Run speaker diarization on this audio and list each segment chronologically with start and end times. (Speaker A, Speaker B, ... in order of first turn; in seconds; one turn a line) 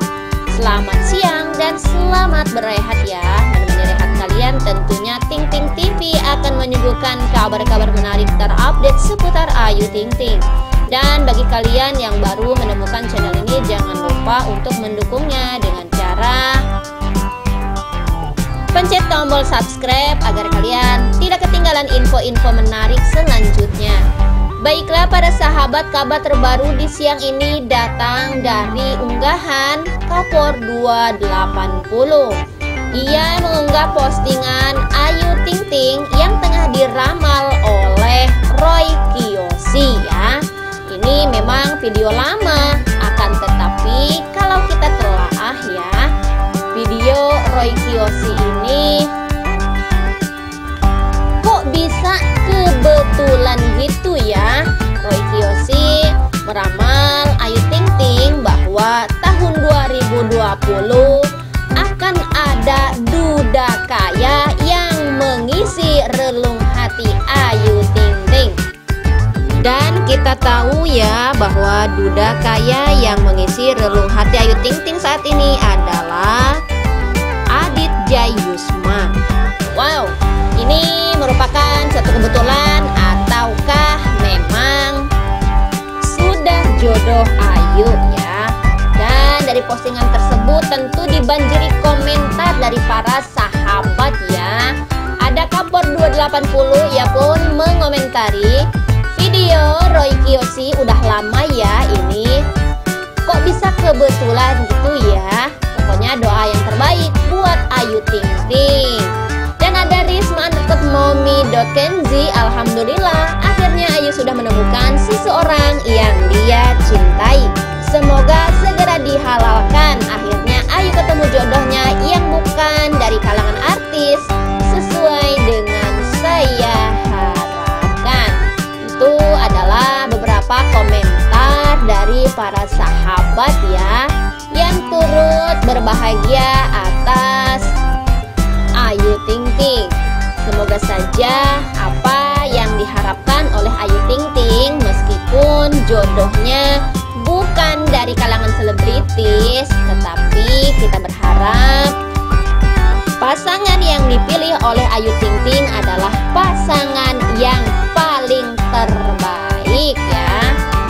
Speaker A: 0.5-16.6
Speaker A: 18.7-24.0
Speaker A: 24.6-32.4
Speaker A: 32.9-46.1
Speaker A: 46.7-49.1
Speaker A: 51.4-68.6
Speaker A: 69.6-76.6
Speaker A: 77.5-79.2
Speaker A: 79.7-85.1
Speaker A: 86.0-102.4
Speaker A: 103.2-137.7
Speaker A: 138.8-151.9
Speaker A: 153.2-160.5